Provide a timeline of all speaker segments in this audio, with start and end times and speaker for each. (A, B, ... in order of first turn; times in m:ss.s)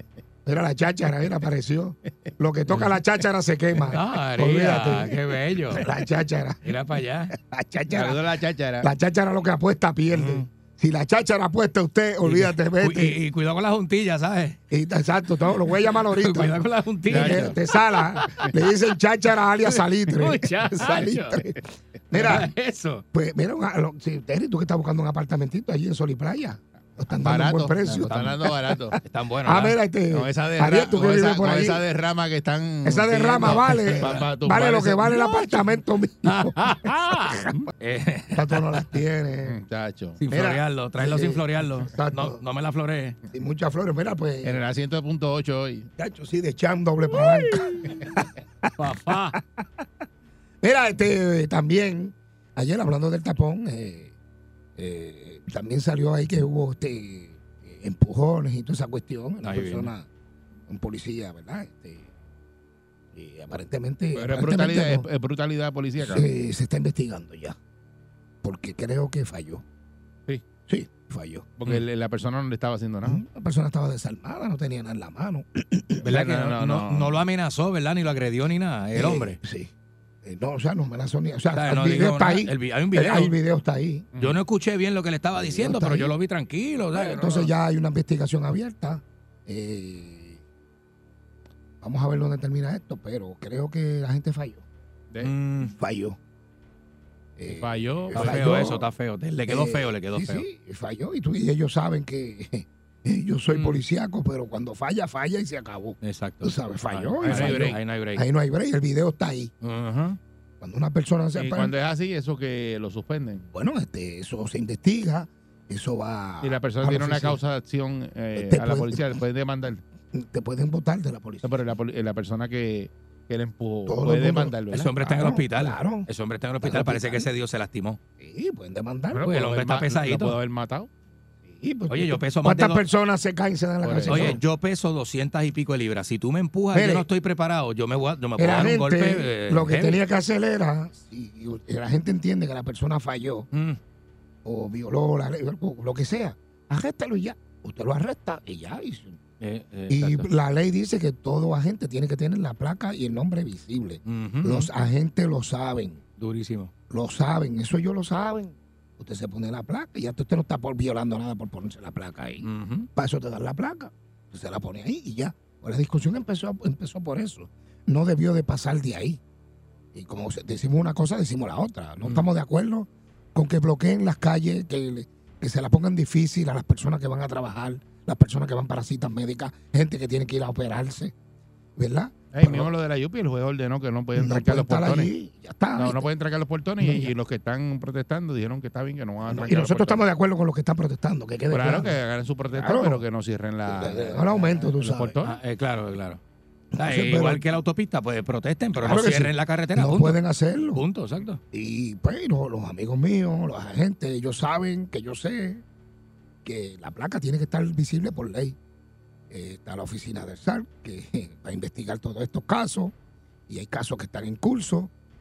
0:00.4-0:05.2 A
0:03.9-0:05.9 B
0:05.7-0:06.6 A
0:06.6-0:07.3 B
0:07.3-0:08.2 A
0:07.9-0:08.9 C
0:08.8-0:13.2 A
0:10.1-0:10.4 C
0:12.2-0:14.6 B
0:14.7-0:22.5 A
0:16.0-0:18.5 B
0:17.1-0:17.6 C
0:19.6-0:21.4 B
0:22.2-0:23.0 B
0:23.1-0:31.8 A
0:27.1-0:29.0 C
0:27.8-0:28.4 B
0:29.0-0:29.8 B
0:30.1-0:35.6 C
0:32.8-0:37.6 A
0:33.4-0:34.3 B
0:36.2-0:38.9 B
0:38.3-0:39.6 A
0:39.4-0:40.2 C
0:40.2-0:43.2 B
0:40.3-0:42.4 A
0:43.3-0:44.6 A
0:44.4-0:45.9 C
0:46.0-0:48.7 A
0:47.1-0:48.1 B
0:48.8-0:49.4 B
0:49.3-0:49.6 A
0:50.6-0:54.1 A
0:54.8-1:00.1 A
0:59.4-0:59.9 B
1:00.7-1:02.0 A
1:03.1-1:05.1 A
1:04.1-1:06.3 C
1:06.0-1:07.6 A
1:08.4-1:09.6 A
1:10.7-1:11.5 A
1:11.6-1:13.2 C
1:13.0-1:16.1 A
1:16.0-1:19.4 B
1:16.0-1:17.2 C
1:18.9-1:19.7 A
1:20.2-1:24.0 A
1:21.5-1:23.4 B
1:24.2-1:27.5 B
1:25.4-1:26.1 A
1:26.9-1:30.4 A
1:31.8-1:34.6 A
1:35.2-1:35.7 B
1:35.6-1:36.2 A
1:37.4-1:38.9 A
1:37.5-1:38.7 C
1:38.1-1:40.4 B
1:39.5-1:49.5 A
1:43.5-1:43.8 B
1:46.0-1:48.2 B
1:47.2-1:47.8 C
1:49.6-1:50.2 B
1:50.6-1:51.7 A
1:51.4-1:53.4 C
1:53.5-1:57.4 A
1:56.4-1:59.8 C
1:58.4-1:59.2 A
2:00.1-2:01.6 A
2:01.4-2:05.4 C
2:03.8-2:04.6 A
2:04.7-2:08.0 B
2:05.2-2:06.1 A
2:06.6-2:07.3 A
2:08.2-2:09.3 A
2:09.1-2:10.9 C
2:09.2-2:10.4 B
2:11.4-2:14.4 A
2:11.9-2:12.8 B
2:13.8-2:14.4 C
2:14.0-2:20.0 B
2:16.7-2:17.1 A
2:18.4-2:23.5 A
2:23.5-2:23.8 B
2:24.4-2:29.2 A
2:29.4-2:30.3 B
2:29.9-2:36.0 A
2:34.0-2:34.7 B
2:36.2-2:36.7 B
2:36.9-2:49.2 A
2:42.4-2:42.9 B
2:49.9-3:01.1 A
3:01.8-3:02.7 A
3:02.3-3:05.1 C
3:04.1-3:06.1 A
3:05.8-3:10.0 C
3:06.8-3:07.1 A
3:09.2-3:12.0 A
3:11.5-3:15.4 C
3:12.5-3:13.0 A
3:13.6-3:15.2 A
3:15.2-3:16.2 B
3:16.7-3:17.4 A
3:16.8-3:21.4 B
3:18.7-3:20.8 A
3:21.5-3:25.6 A
3:26.4-3:28.6 A
3:29.3-3:32.9 A
3:33.5-3:34.9 A